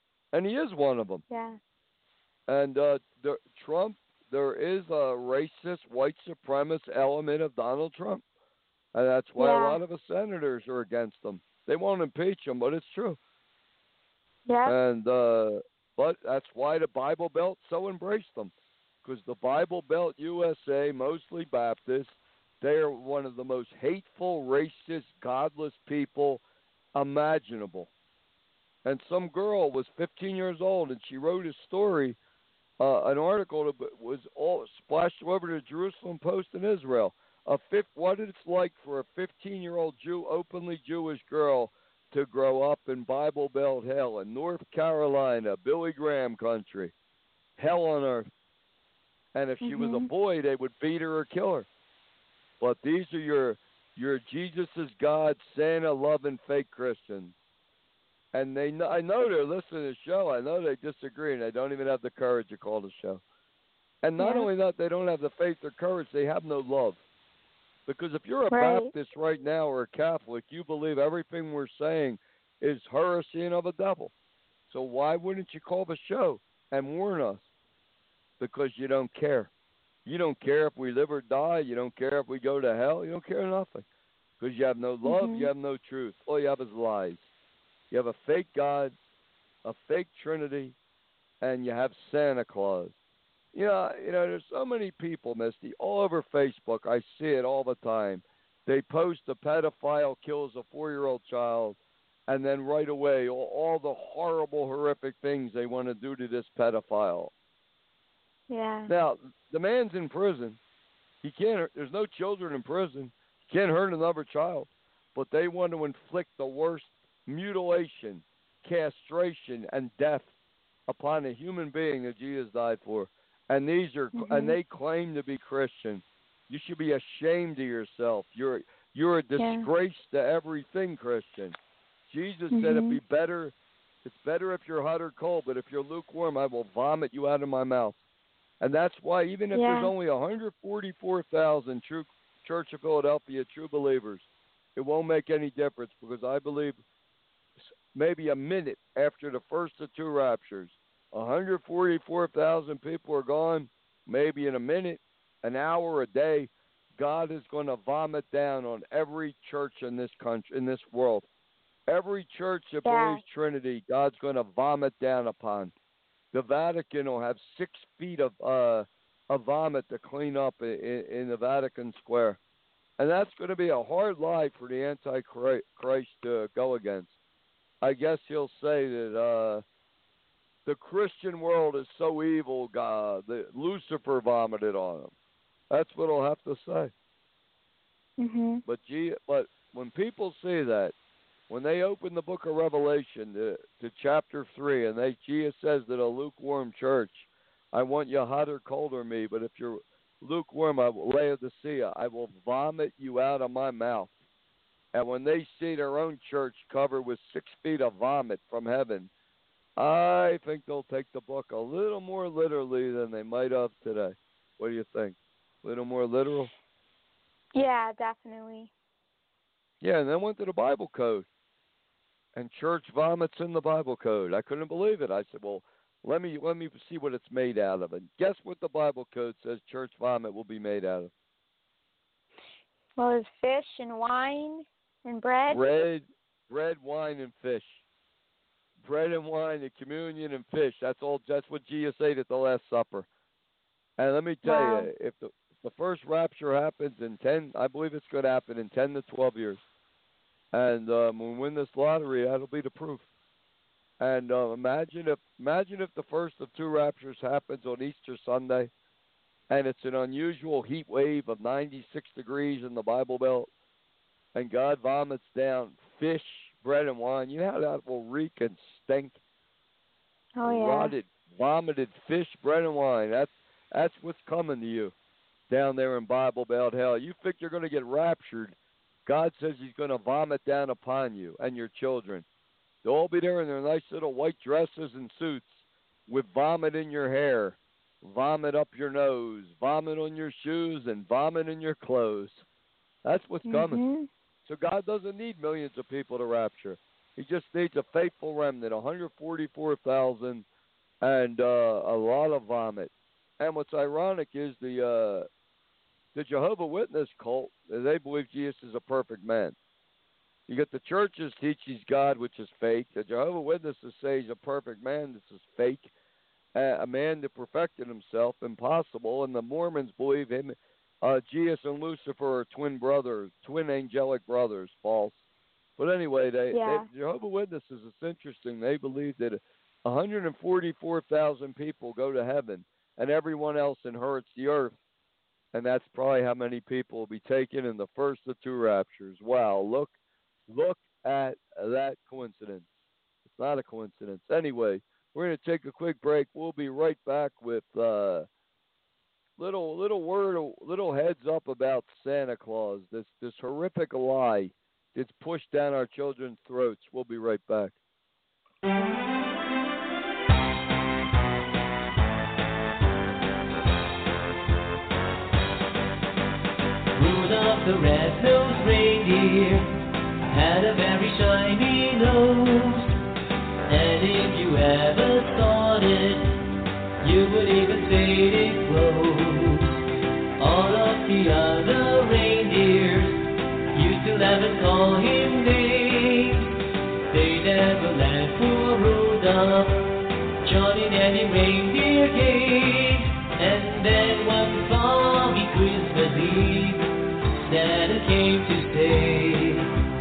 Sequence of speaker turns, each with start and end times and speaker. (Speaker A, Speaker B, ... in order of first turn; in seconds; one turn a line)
Speaker A: 0.3-1.2
Speaker B: 1.3-1.6
Speaker A: 2.5-8.2
Speaker A: 8.9-13.2
Speaker B: 9.4-9.8
Speaker B: 14.5-14.8
Speaker A: 14.7-18.5
Speaker A: 19.0-26.4
Speaker A: 26.9-27.9
Speaker A: 28.8-32.2
Speaker A: 32.8-46.9
Speaker A: 47.6-48.3
Speaker A: 49.4-51.7
Speaker B: 49.6-50.1
Speaker A: 52.6-57.4
Speaker A: 58.3-63.2
Speaker A: 64.0-67.0
Speaker B: 64.2-64.5
Speaker A: 67.9-74.1
Speaker B: 68.5-68.9
Speaker A: 74.7-77.5
Speaker A: 78.4-79.5
Speaker A: 80.0-83.9
Speaker A: 84.4-87.3
Speaker B: 85.0-85.5
Speaker A: 87.9-89.0
Speaker A: 89.6-90.8
Speaker A: 91.4-93.0
Speaker A: 93.5-107.3
Speaker B: 108.5-108.9
Speaker A: 108.9-110.6
Speaker A: 111.2-120.3
Speaker A: 120.9-138.0
Speaker B: 124.1-124.6
Speaker B: 129.4-129.7
Speaker B: 132.5-133.0
Speaker A: 138.6-146.8
Speaker B: 139.5-139.9
Speaker A: 147.9-161.3
Speaker A: 161.9-165.7
Speaker B: 162.8-163.2
Speaker A: 166.3-172.4
Speaker A: 173.0-177.1
Speaker A: 177.8-179.6
Speaker A: 180.7-185.1
Speaker A: 185.7-186.9
Speaker B: 188.2-188.6
Speaker A: 188.7-190.9
Speaker A: 191.5-204.1
Speaker A: 204.9-209.1
Speaker A: 209.8-216.5
Speaker B: 217.6-218.7
Speaker A: 219.8-221.3
Speaker A: 222.3-231.1
Speaker B: 233.0-235.6
Speaker A: 235.5-237.8
Speaker A: 238.8-243.1
Speaker A: 244.0-249.6
Speaker B: 244.4-244.9
Speaker A: 250.5-253.1
Speaker A: 254.0-258.7
Speaker A: 259.5-263.5
Speaker A: 264.3-269.2
Speaker B: 270.4-270.9
Speaker A: 270.4-274.9
Speaker A: 275.5-282.2
Speaker A: 282.8-292.4
Speaker A: 293.1-293.8
Speaker B: 293.4-294.1
Speaker A: 294.5-300.4
Speaker A: 301.0-305.3
Speaker A: 306.1-309.6
Speaker A: 310.5-315.9
Speaker A: 316.6-325.2
Speaker A: 325.8-334.8
Speaker B: 326.5-326.9
Speaker A: 335.5-339.9
Speaker A: 340.5-342.7
Speaker A: 343.2-348.3
Speaker A: 349.4-357.8
Speaker C: 367.0-369.7
Speaker C: 370.3-372.9
Speaker C: 373.7-376.5
Speaker C: 377.0-379.8
Speaker C: 380.4-383.2
Speaker C: 383.7-386.6
Speaker C: 387.1-399.7